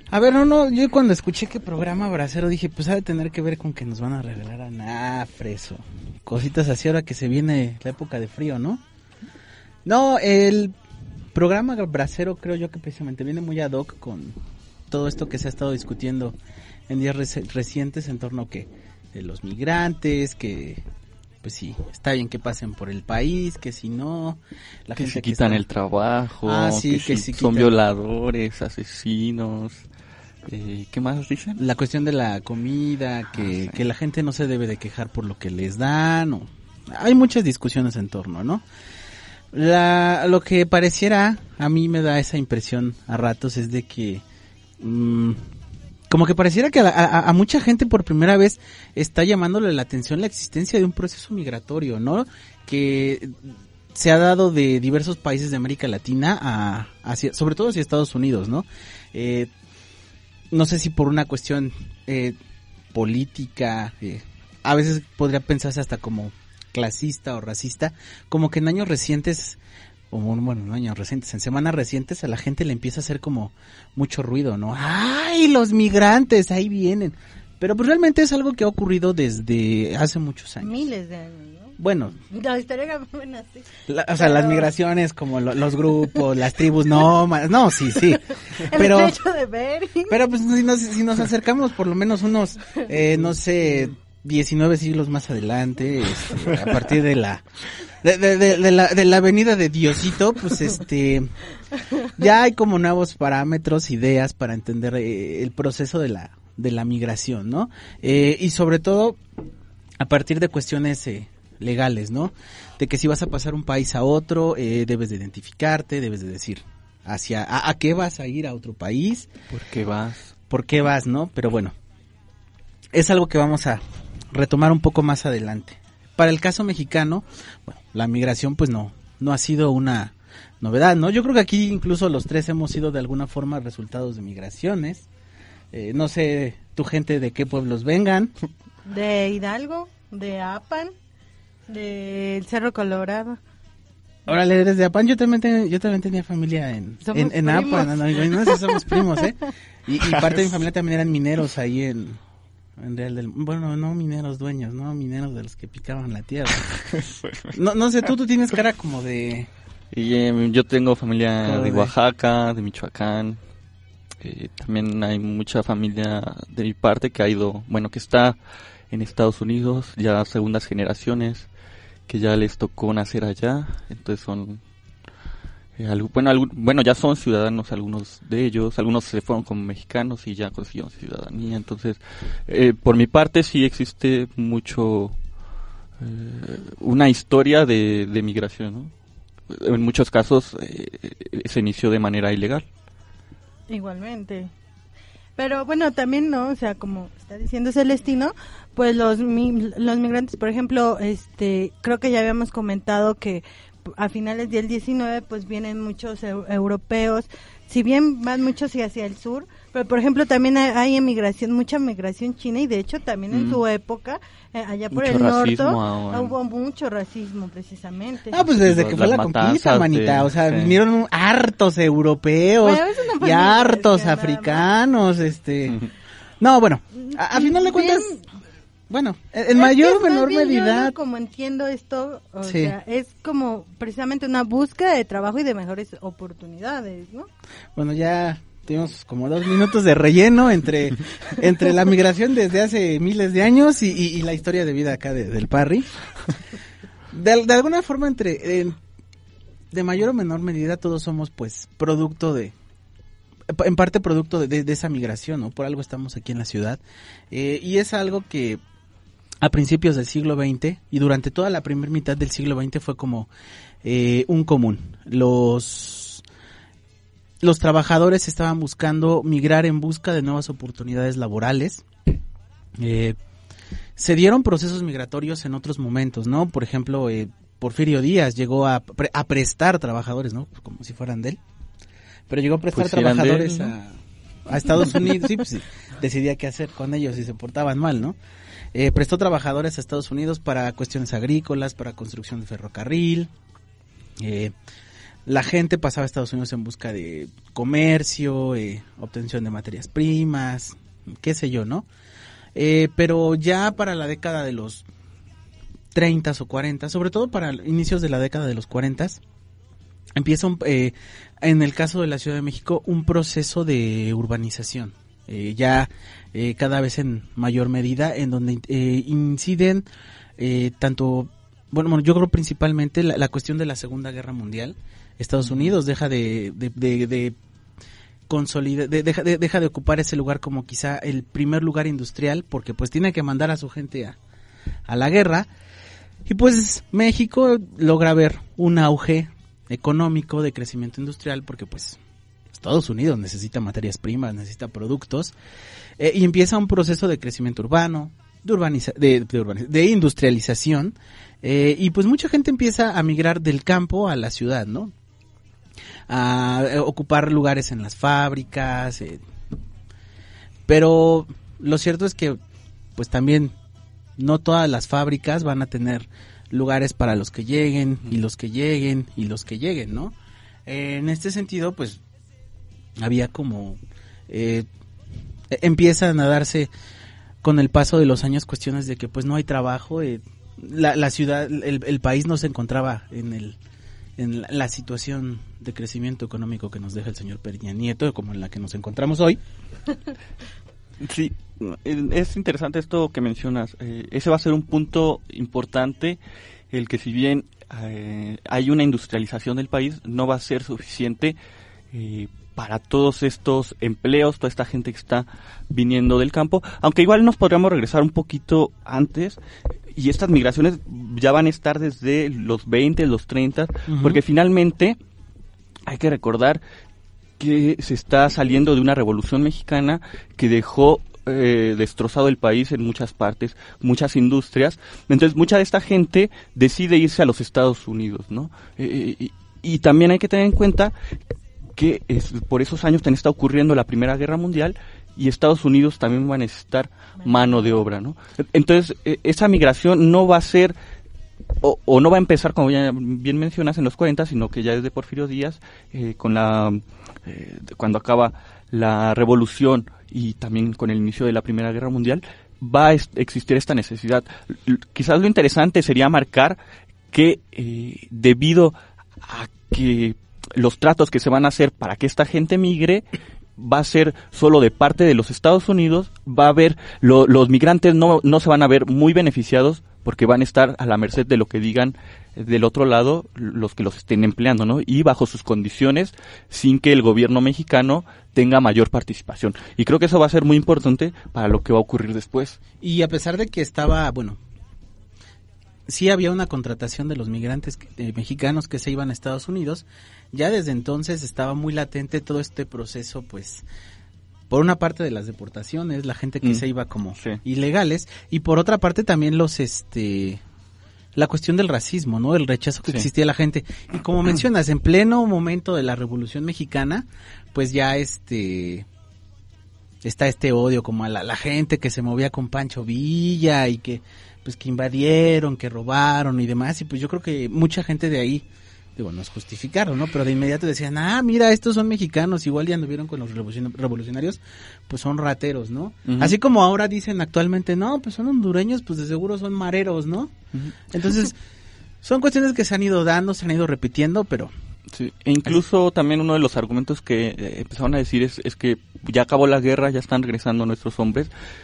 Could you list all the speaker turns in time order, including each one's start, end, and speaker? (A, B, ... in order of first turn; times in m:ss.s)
0:00.1-0:08.8 A
0:09.8-0:10.7 A
0:11.3-0:14.4 A
0:14.9-0:16.4 A
0:16.9-0:20.8 A
0:21.4-0:25.6 A
0:25.0-0:29.9 B
0:26.4-0:27.7 A
0:30.5-0:31.6 B
0:31.6-0:38.6 A
0:33.4-0:33.7 B
0:39.5-0:44.2 A
0:44.8-0:45.4 A
0:46.1-0:59.5 A
1:00.5-1:02.4 A
1:02.9-1:09.6 A
1:10.1-1:20.8 A
1:20.6-1:21.8 C
1:21.8-1:22.2 A
1:22.3-1:24.7 C
1:23.9-1:29.2 A
1:28.5-1:30.2 C
1:30.1-1:41.3 A
1:42.0-1:49.2 A
1:50.0-1:59.3 A
1:59.5-2:00.3 B
2:00.5-2:01.7 A
2:02.9-2:15.1 A
2:15.7-2:18.3 A
2:18.8-2:20.9 C
2:21.7-2:23.4 C
2:24.3-2:32.2 A
2:27.0-2:29.2 C
2:30.0-2:30.5 B
2:32.8-2:36.7 A
2:36.9-2:37.5 B
2:37.5-2:39.5 A
2:39.9-2:43.4 B
2:41.4-2:41.9 A
2:44.2-2:48.4 B
2:48.9-2:51.5 B
2:52.1-2:54.6 B
2:55.8-3:05.2 B
3:06.0-3:08.9 B
3:09.5-3:12.6 B
3:13.7-3:14.5 C
3:15.4-3:38.4 C
3:33.3-3:33.6 B
3:34.9-3:36.3 B
3:38.3-3:45.8 A
3:38.5-3:40.8 B
3:42.6-3:44.7 C
3:46.4-3:48.1 A
3:47.0-3:48.2 C
3:48.9-3:50.9 A
3:49.5-3:57.3 C
3:52.4-3:52.7 A
3:57.7-4:05.9 A
4:07.1-4:08.8 A
4:09.7-4:12.5 A
4:13.5-4:18.6 A
4:19.4-4:23.3 A
4:23.8-4:26.2 A
4:27.4-4:31.8 A
4:32.8-4:33.2 A
4:34.0-4:41.4 A
4:42.3-4:48.2 A
4:42.7-4:43.7 B
4:48.7-4:53.3 A
4:54.2-4:54.5 A
4:55.2-5:01.9 A
5:02.5-5:04.8 A
5:05.9-5:09.2 A
5:10.1-5:19.9 A
5:20.4-5:27.4 A
5:28.3-5:34.2 A
5:34.9-5:35.5 A
5:36.2-5:42.0 A
5:42.5-5:45.3 A
5:46.0-5:54.9 A
5:56.1-5:59.2 A
6:00.7-6:02.4 A
6:03.0-6:03.5 A
6:04.2-6:10.1 A
6:10.7-6:12.0 A
6:13.0-6:14.7 A
6:15.5-6:16.7 A
6:17.4-6:23.6 A
6:24.2-6:29.4 A
6:31.0-6:36.2 B
6:36.7-6:41.4 B
6:41.9-6:49.4 B
6:49.9-6:55.0 B
6:53.9-6:54.2 A
6:55.9-6:56.6 B
6:57.4-7:10.9 B
7:11.8-7:20.8 B
7:17.2-7:17.8 C
7:21.6-7:36.6 B
7:37.1-7:43.0 B
7:43.6-8:02.6 B
8:02.8-8:04.4 A
8:05.9-8:13.6 A
8:14.5-8:20.4 A
8:21.1-8:28.9 A
8:30.0-8:38.4 A
8:39.0-8:50.3 A
8:46.0-8:46.4 B
8:50.9-8:51.4 A
8:52.0-8:54.5 A
8:54.9-9:01.3 B